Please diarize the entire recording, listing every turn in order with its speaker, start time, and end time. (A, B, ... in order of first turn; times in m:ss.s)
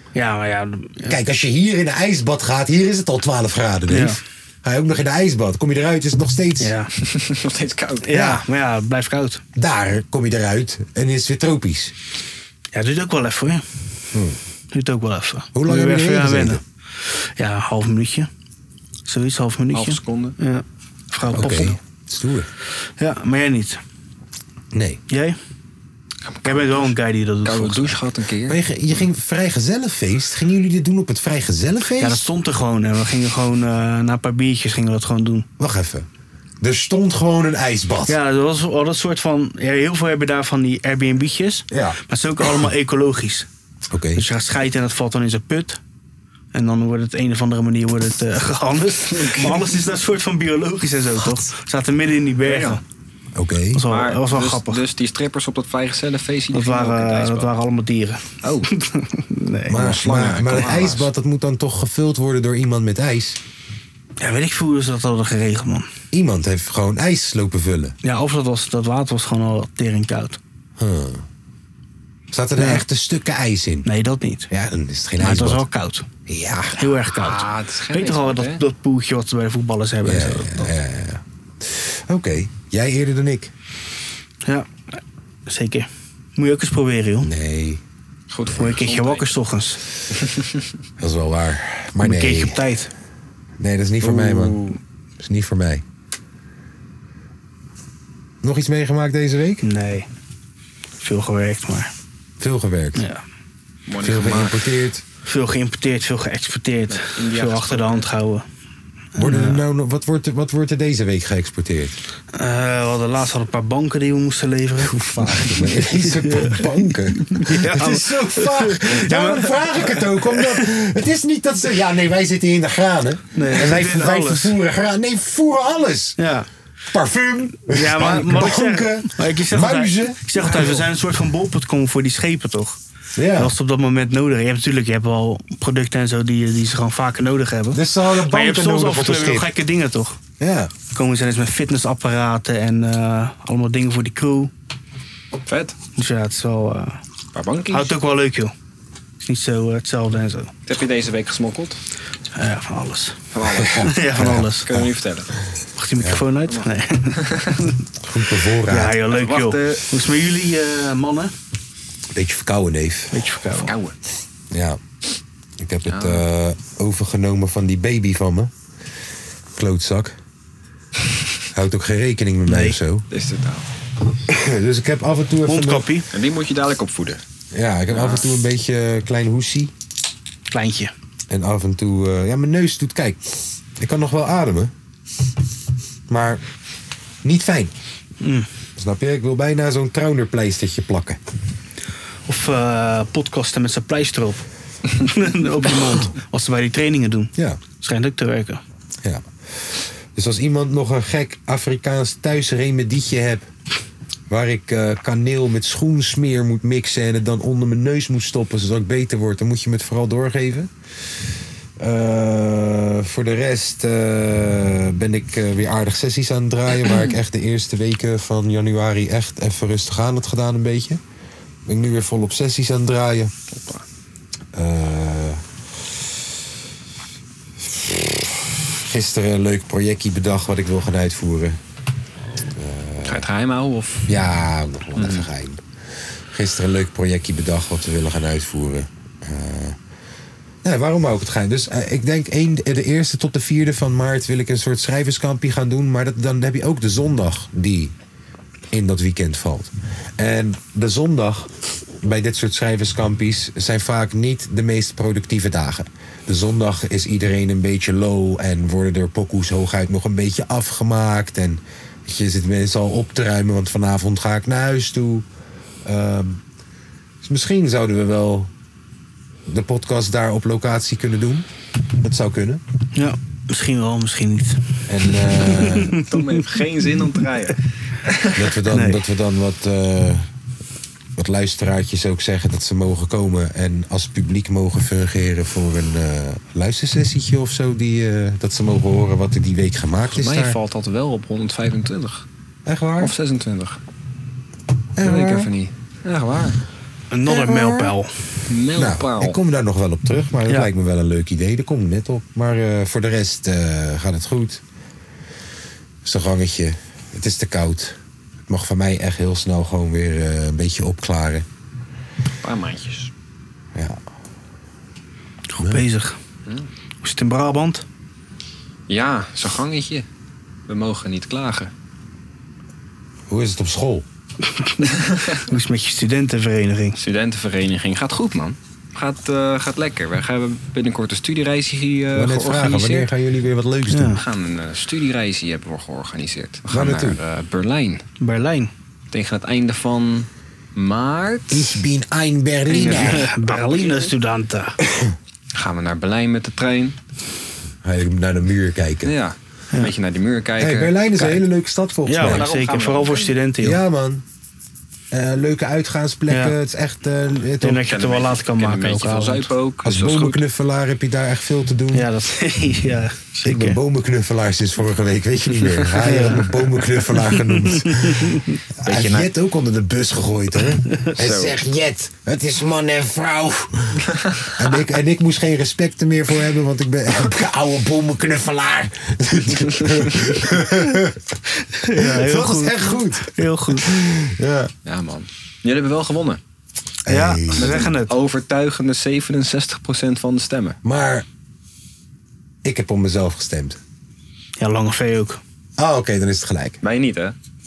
0:00.2-0:01.2 A
0:01.0-0:06.7 B
0:03.9-0:04.2 A
0:06.6-0:06.9 A
0:07.0-0:08.3 C
0:08.0-0:09.4 A
0:08.1-0:08.4 B
0:09.6-0:11.9 B
0:12.7-0:13.6 A
0:14.7-0:18.3 A
0:15.5-0:16.6 B
0:19.1-0:21.8 A
0:19.7-0:20.4 C
0:21.3-0:21.8 C
0:21.3-0:22.5 B
0:23.0-0:23.8 A
0:24.7-0:25.0 B
0:25.1-0:25.4 A
0:26.2-0:26.9 C
0:26.4-0:28.0 A
0:27.4-0:28.6 C
0:28.5-0:32.3 B
0:32.0-0:35.5 A
0:35.6-0:36.1 B
0:36.6-0:38.2 B
0:38.1-0:43.5 A
0:41.7-0:42.0 B
0:43.9-0:44.2 B
0:44.2-0:45.8 A
0:46.5-0:52.8 A
0:49.1-0:49.7 C
0:52.4-0:52.8 C
0:53.4-0:53.8 B
0:53.7-0:54.8 A
0:53.9-0:57.5 C
0:56.5-0:59.9 A
0:58.4-0:58.7 C
0:59.7-1:03.4 B
0:59.7-1:01.1 C
1:04.2-1:05.9 A
1:06.1-1:08.0 B
1:08.0-1:10.4 A
1:10.8-1:11.2 B
1:12.3-1:13.9 B
1:12.6-1:12.8 A
1:13.8-1:14.5 A
1:14.5-1:15.6 B
1:15.2-1:16.1 A
1:16.3-1:16.9 B
1:16.8-1:20.7 A
1:17.1-1:18.6 C
1:20.0-1:23.5 B
1:25.5-1:27.3 A
1:27.2-1:27.8 B
1:28.3-1:29.3 C
1:28.5-1:29.8 A
1:30.2-1:30.6 C
1:31.0-1:32.6 B
1:32.0-1:32.9 A
1:33.6-1:34.6 B
1:34.0-1:34.8 C
1:35.2-1:35.8 B
1:38.4-1:39.6 B
1:39.6-1:40.1 A
1:41.0-1:41.9 A
1:42.4-1:43.0 B
1:43.0-1:43.2 A
1:43.9-1:44.6 C
1:44.0-1:45.0 B
1:45.2-1:48.4 A
1:46.9-1:48.1 C
1:49.2-1:52.0 B
1:49.2-1:49.6 A
1:52.3-2:00.7 A
1:54.8-2:06.2 B
2:03.3-2:04.6 A
2:06.2-2:06.5 A
2:06.9-2:10.8 B
2:07.7-2:12.8 A
2:08.0-2:08.3 C
2:13.2-2:13.5 B
2:13.4-2:20.2 A
2:17.7-2:19.5 B
2:20.4-2:20.7 B
2:20.9-2:24.5 A
2:25.5-2:25.8 C
2:26.0-2:27.0 A
2:27.3-2:28.0 C
2:27.7-2:28.5 A
2:29.2-2:30.5 A
2:30.7-2:31.8 C
2:32.4-2:33.2 A
2:33.3-2:33.9 C
2:33.5-2:34.9 B
2:33.8-2:34.7 A
2:34.6-2:35.3 C
2:35.8-2:37.8 A
2:36.5-2:37.6 C
2:38.0-2:39.0 B
2:38.7-2:41.3 A
2:39.1-2:39.9 C
2:42.1-2:43.2 B
2:43.1-2:43.7 A
2:43.6-2:44.0 C
2:44.5-2:44.8 B
2:45.6-2:48.5 B
2:45.9-2:46.2 C
2:49.6-2:50.2 B
2:51.5-2:53.1 B
2:52.5-2:52.8 A
2:53.1-2:53.7 C
2:54.3-2:55.9 B
2:55.5-2:56.1 A
2:56.1-2:57.2 C
2:57.5-2:59.7 B
2:57.9-2:58.3 C
3:00.5-3:00.9 A
3:01.3-3:04.7 B
3:06.1-3:06.4 B
3:07.2-3:07.7 B
3:08.2-3:08.5 A
3:08.8-3:11.2 B
3:12.3-3:18.6 A
3:19.0-3:23.5 B
3:24.3-3:30.7 B
3:31.8-3:41.0 B
3:41.7-3:43.3 B
3:43.5-3:43.8 C
3:44.5-3:45.4 B
3:47.6-3:51.6 B
3:52.5-3:53.3 B
3:53.0-3:54.1 C
3:54.1-3:55.6 B
3:55.0-3:55.3 C
3:56.3-3:59.8 B
4:00.6-4:07.9 B
4:08.7-4:11.5 B
4:12.0-4:25.2 B
4:25.8-4:26.4 B
4:27.2-4:28.5 B
4:29.5-4:31.5 B
4:32.0-4:32.6 B
4:33.0-4:36.4 A
4:34.9-4:36.0 B
4:35.9-4:38.4 C
4:38.4-4:40.3 B
4:38.7-4:39.0 A
4:41.2-4:50.6 B
4:50.1-4:52.2 C
4:52.7-4:53.1 B
4:53.0-4:53.8 C
4:55.0-4:55.5 B
4:55.0-4:56.6 C
4:57.1-4:58.1 A
4:57.3-4:57.9 B
4:58.5-4:59.4 C
4:58.8-5:04.6 B
5:06.0-5:08.0 B
5:08.5-5:11.5 B
5:12.4-5:13.1 C
5:15.5-5:16.2 A
5:15.6-5:15.8 B
5:17.0-5:17.8 A
5:18.9-5:20.1 C
5:20.7-5:21.7 C
5:23.3-5:24.0 B
5:24.5-5:27.0 A
5:24.9-5:25.4 C
5:27.0-5:33.1 C
5:32.1-5:34.2 B
5:33.9-5:34.2 A
5:34.2-5:38.0 C
5:36.7-5:37.2 B
5:38.2-5:38.7 A
5:39.1-5:41.8 C
5:41.5-5:43.3 B
5:42.7-5:44.1 C
5:42.7-5:44.8 A
5:44.8-5:45.1 B
5:45.6-5:47.0 C
5:47.8-5:49.2 B
5:49.0-5:51.4 C
5:50.6-5:52.5 B
5:52.1-5:53.8 A
5:52.2-5:53.4 C
5:53.6-5:54.2 B
5:55.1-5:57.8 B
5:56.3-5:56.6 A
5:57.6-5:59.5 A
5:57.8-6:00.4 C
5:59.8-6:02.1 B
6:01.9-6:03.8 A
6:03.4-6:21.2 B
6:06.0-6:08.6 A
6:08.8-6:09.3 C
6:11.2-6:11.6 C
6:14.2-6:14.4 C
6:21.6-6:24.0 A
6:21.9-6:24.7 B
6:24.8-6:26.4 C
6:27.1-6:27.9 B
6:27.1-6:28.1 A
6:27.6-6:30.8 C
6:30.8-6:31.2 B
6:32.6-6:33.8 B
6:34.6-6:35.4 A
6:35.8-6:36.8 B
6:36.8-6:37.4 C